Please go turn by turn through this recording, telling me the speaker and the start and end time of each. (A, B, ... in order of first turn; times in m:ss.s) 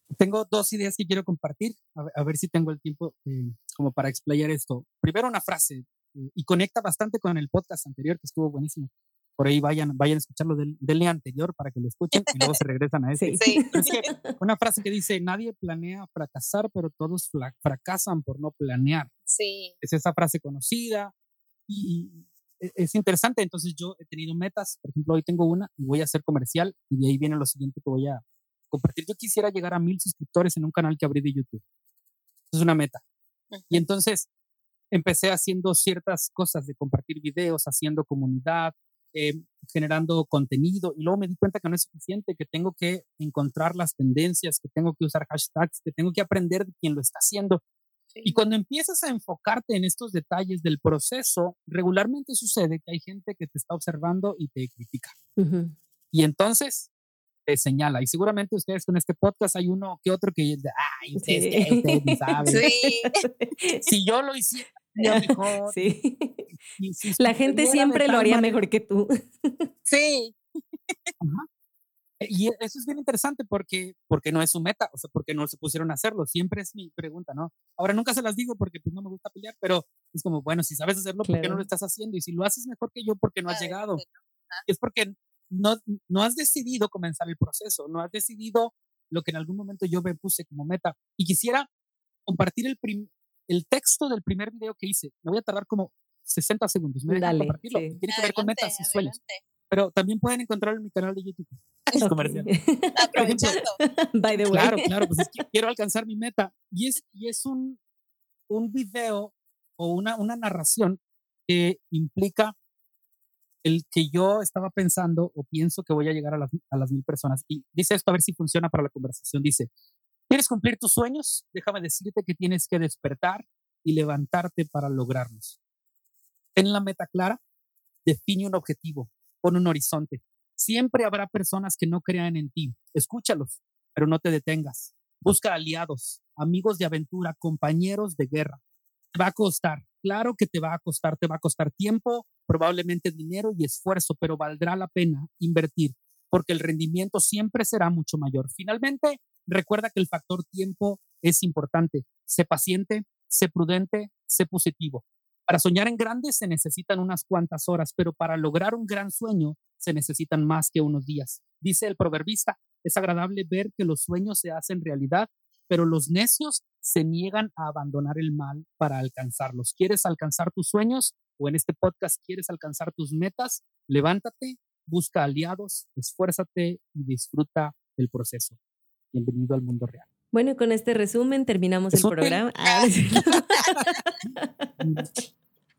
0:00.2-0:19.1 A
0:12.3-0:12.6 B
0:13.2-0:14.3 C
0:13.4-0:14.0 B
0:19.3-0:19.8 B
0:19.8-0:21.1 A
0:21.7-0:31.6 A
0:32.5-0:33.0 A
0:33.5-0:33.9 B
0:33.7-0:34.3 A
0:34.9-0:47.6 A
0:48.2-0:55.1 A
0:55.4-0:55.8 C
0:56.1-0:56.9 A
0:57.5-1:02.7 A
1:01.2-1:03.8 C
1:02.5-1:03.1 B
1:03.8-1:05.9 A
1:05.2-1:06.5 C
1:06.8-1:08.6 A
1:07.2-1:09.7 C
1:09.9-1:11.1 B
1:11.2-1:11.5 A
1:12.2-1:24.0 A
1:21.2-1:21.7 C
1:23.5-1:24.7 B
1:24.7-1:31.7 A
1:32.3-1:39.1 A
1:37.1-1:38.0 C
1:38.1-1:39.4 B
1:39.7-1:42.5 A
1:42.0-1:45.3 C
1:43.0-1:43.8 B
1:43.2-1:43.6 A
1:44.4-1:44.7 B
1:44.5-1:47.8 A
1:48.5-1:52.6 A
1:53.6-1:59.7 A
2:00.3-2:05.6 A
2:06.6-2:07.4 A
2:08.0-2:18.6 A
2:19.2-2:58.6 A
2:59.1-3:00.0 A
3:00.3-3:03.7 C
3:01.9-3:02.4 A
3:03.5-3:04.1 B
3:04.4-3:04.7 C
3:04.8-3:05.1 A